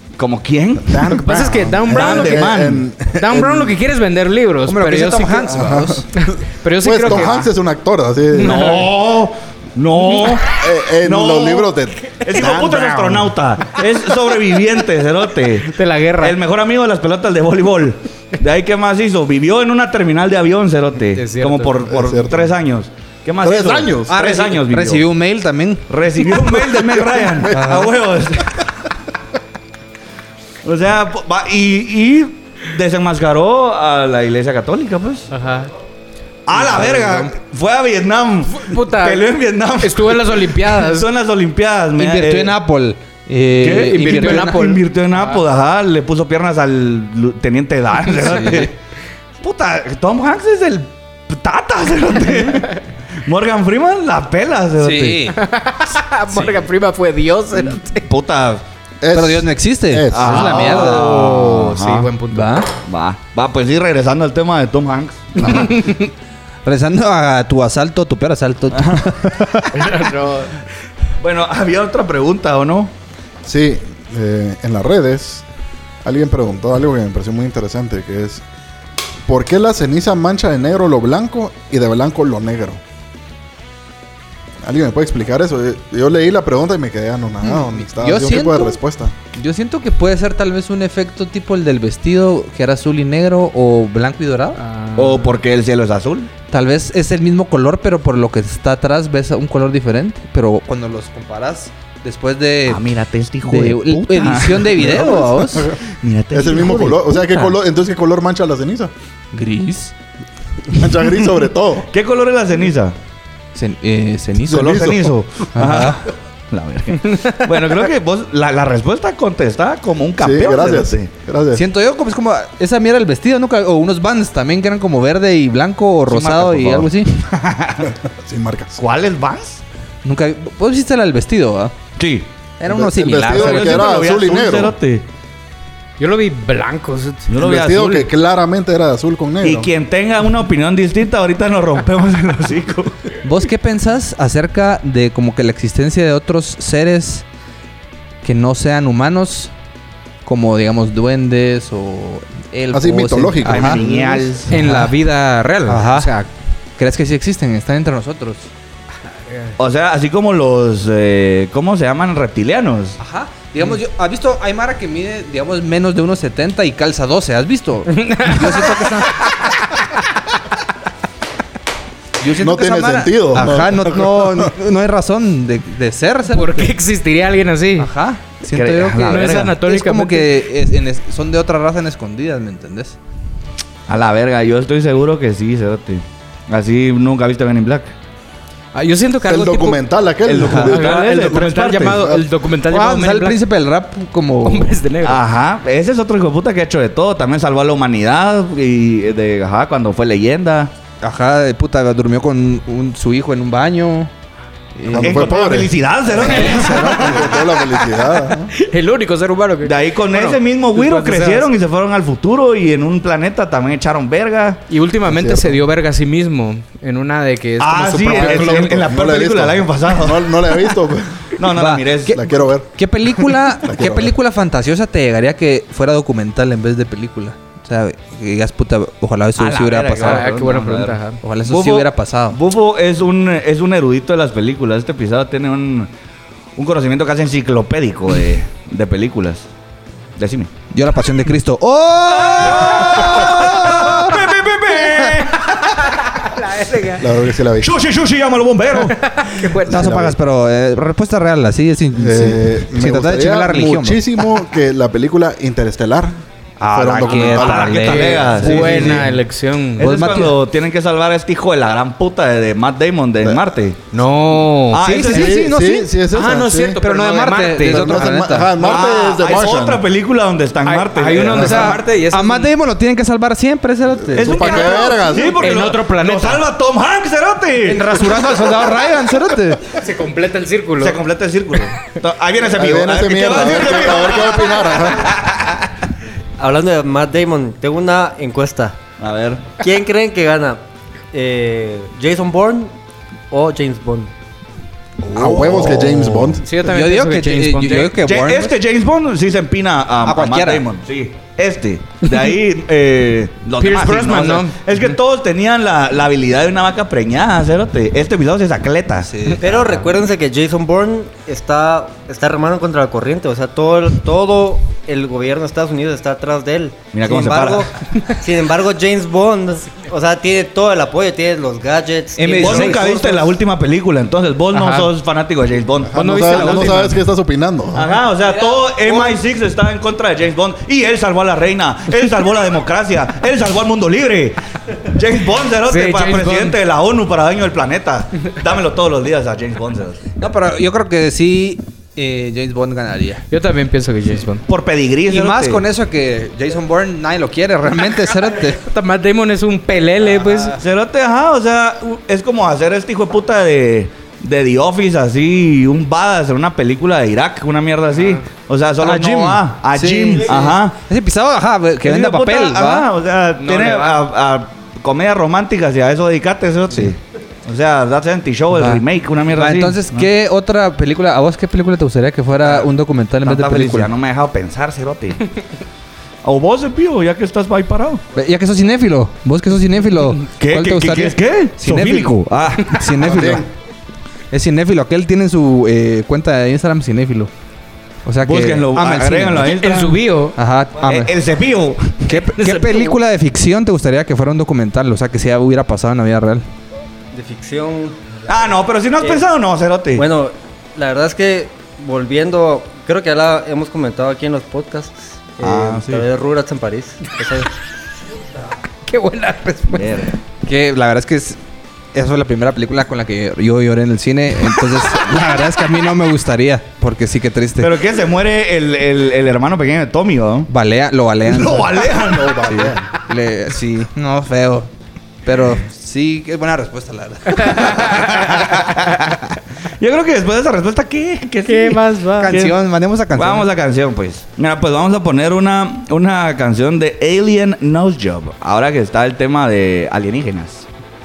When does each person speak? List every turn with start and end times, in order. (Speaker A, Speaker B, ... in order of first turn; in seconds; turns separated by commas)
Speaker A: 0.2-1.2, Speaker B: 0.8-3.8, Speaker C: 1.2-2.5, Speaker A: 1.9-2.9, Speaker C: 3.1-5.5, Speaker D: 4.6-6.0, Speaker B: 5.5-8.8, Speaker C: 6.2-7.5, Speaker A: 8.4-25.0, Speaker C: 8.4-8.8, Speaker B: 10.4-13.3, Speaker C: 15.7-16.4, Speaker C: 21.1-21.8, Speaker B: 21.8-22.5, Speaker B: 23.4-24.1, Speaker D: 24.1-26.5, Speaker A: 25.9-28.7, Speaker B: 26.7-27.9, Speaker D: 27.5-27.9, Speaker A: 30.6-35.3, Speaker C: 35.3-35.7, Speaker A: 36.5-42.5, Speaker D: 36.5-37.3, Speaker C: 38.5-39.3, Speaker C: 39.8-41.1, Speaker D: 42.0-44.8, Speaker A: 43.6-48.7, Speaker C: 43.7-45.4, Speaker D: 48.2-48.7, Speaker A: 49.4-55.3, Speaker D: 54.8-55.4, Speaker C: 55.3-58.1, Speaker A: 58.0-58.6, Speaker B: 59.0-60.5, Speaker D: 59.1-61.5, Speaker A: 60.1-62.1, Speaker C: 60.3-62.6, Speaker D: 62.3-62.7, Speaker A: 62.8-65.8, Speaker D: 65.4-65.8, Speaker C: 65.8-66.0, Speaker D: 66.6-69.7, Speaker A: 68.7-69.6, Speaker C: 69.7-70.5, Speaker A: 71.2-72.9, Speaker B: 73.4-75.4, Speaker B: 76.0-78.4, Speaker B: 79.3-82.8, Speaker B: 84.6-89.2, Speaker D: 87.4-88.8, Speaker D: 89.3-94.6, Speaker C: 94.6-95.3, Speaker A: 95.0-96.3, Speaker D: 96.5-102.8, Speaker A: 102.7-105.3, Speaker D: 103.4-105.7, Speaker B: 104.8-105.8, Speaker A: 106.0-107.4, Speaker B: 106.3-108.9, Speaker D: 106.6-107.5, Speaker D: 109.3-109.9, Speaker B: 110.7-111.9, Speaker A: 111.9-112.9, Speaker D: 113.5-114.9, Speaker B: 114.5-115.2, Speaker A: 114.5-121.1, Speaker D: 115.5-116.0, Speaker B: 120.2-121.7, Speaker D: 121.5-127.1, Speaker A: 126.1-127.9, Speaker B: 128.2-128.8, Speaker A: 128.8-129.6, Speaker D: 130.0-131.7, Speaker A: 132.0-132.3, Speaker D: 132.6-134.0, Speaker B: 132.7-134.7, Speaker A: 133.3-135.0, Speaker C: 136.0-137.3, Speaker A: 137.3-138.1, Speaker B: 137.3-139.7, Speaker A: 139.4-143.2, Speaker D: 143.2-147.2, Speaker D: 148.2-149.5, Speaker D: 150.2-154.9, Speaker B: 152.7-153.9, Speaker A: 153.4-154.5, Speaker C: 154.5-156.3, Speaker D: 155.7-156.1, Speaker D: 156.8-158.5, Speaker A: 159.6-163.0, Speaker D: 163.0-169.3, Speaker C: 167.9-168.8, Speaker D: 172.2-176.8, Speaker B: 172.4-174.5, Speaker C: 176.3-177.9, Speaker D: 177.8-183.0, Speaker A: 178.5-179.5, Speaker C: 179.0-180.3, Speaker A: 183.9-187.9, Speaker C: 188.7-189.8, Speaker B: 189.3-191.0, Speaker A: 190.2-192.1, Speaker D: 190.4-190.7, Speaker C: 190.5-193.4, Speaker D: 192.7-194.8, Speaker C: 194.4-195.2, Speaker A: 195.0-200.7, Speaker D: 201.0-204.1, Speaker D: 204.7-205.4, Speaker B: 204.9-208.5, Speaker A: 205.0-207.4, Speaker D: 206.1-207.4, Speaker C: 206.2-206.8, Speaker C: 208.5-211.5, Speaker A: 209.6-214.6, Speaker C: 214.7-218.7, Speaker B: 215.1-215.6, Speaker A: 217.6-220.7, Speaker B: 218.0-221.4, Speaker A: 221.3-222.2, Speaker D: 221.5-230.4, Speaker B: 222.1-224.1, Speaker A: 229.4-235.9, Speaker C: 230.0-231.2, Speaker D: 231.2-232.4, Speaker A: 236.6-239.5, Speaker A: 240.2-240.5, Speaker D: 240.7-244.3, Speaker A: 242.1-246.2, Speaker C: 245.8-247.1, Speaker B: 247.0-247.7, Speaker A: 247.6-249.5, Speaker C: 249.0-249.8, Speaker D: 249.7-254.4, Speaker B: 249.7-250.1, Speaker B: 251.9-256.2, Speaker D: 256.6-259.1, Speaker B: 256.7-258.0, Speaker A: 257.0-259.1, Speaker C: 257.8-260.2, Speaker A: 259.8-263.8, Speaker D: 259.8-260.4, Speaker C: 263.9-265.3, Speaker A: 264.7-265.4, Speaker D: 264.8-265.9, Speaker B: 265.1-266.8, Speaker C: 266.1-268.2, Speaker D: 266.8-268.5, Speaker B: 267.6-269.8, Speaker A: 268.6-271.8, Speaker C: 270.6-272.5, Speaker D: 271.3-274.9, Speaker B: 274.1-275.4, Speaker A: 274.1-278.7, Speaker C: 275.0-276.4, Speaker D: 277.6-279.7, Speaker C: 279.7-281.0, Speaker A: 280.8-285.6, Speaker B: 282.5-285.1, Speaker E: 286.4-288.8, Speaker A: 289.0-289.4, Speaker E: 289.6-290.6, Speaker E: 291.1-292.7, Speaker E: 293.3-294.1, Speaker D: 295.0-298.6, Speaker B: 295.1-296.4, Speaker C: 296.4-297.9, Speaker A: 297.8-309.4, Speaker D: 300.0-300.6, Speaker C: 303.6-304.6, Speaker D: 309.0-309.9, Speaker E: 309.4-322.9, Speaker A: 316.9-317.7, Speaker D: 322.1-323.3, Speaker A: 322.4-326.8, Speaker C: 324.5-324.9, Speaker B: 325.9-327.9, Speaker C: 325.9-327.0, Speaker A: 327.7-340.1, Speaker C: 335.7-336.6, Speaker D: 340.2-343.2, Speaker C: 343.3-344.4, Speaker A: 344.4-345.6, Speaker D: 345.1-348.6, Speaker C: 348.6-350.6, Speaker A: 350.4-360.8, Speaker D: 358.8-362.9, Speaker A: 361.8-370.1, Speaker C: 363.4-364.0, Speaker D: 368.5-373.9, Speaker A: 372.4-372.7, Speaker A: 373.2-375.3, Speaker A: 376.2-378.0, Speaker D: 378.1-383.5, Speaker A: 380.4-383.4, Speaker B: 383.0-383.4, Speaker D: 384.3-387.3, Speaker D: 388.0-389.6, Speaker A: 388.2-390.0, Speaker C: 389.4-390.4, Speaker D: 390.4-391.1, Speaker A: 390.8-392.2, Speaker D: 392.1-396.4, Speaker C: 392.4-392.9, Speaker E: 397.1-399.2, Speaker A: 398.3-400.0, Speaker E: 399.9-407.5, Speaker A: 405.4-406.1, Speaker C: 408.8-409.9, Speaker A: 409.7-410.2, Speaker D: 410.4-411.4, Speaker D: 411.9-417.8, Speaker A: 417.6-420.5, Speaker D: 420.5-424.7, Speaker A: 421.2-422.7, Speaker B: 422.0-422.9, Speaker D: 425.2-428.5, Speaker C: 427.3-427.9, Speaker A: 427.8-432.5, Speaker C: 431.4-432.4, Speaker D: 432.2-433.5, Speaker A: 433.1-440.6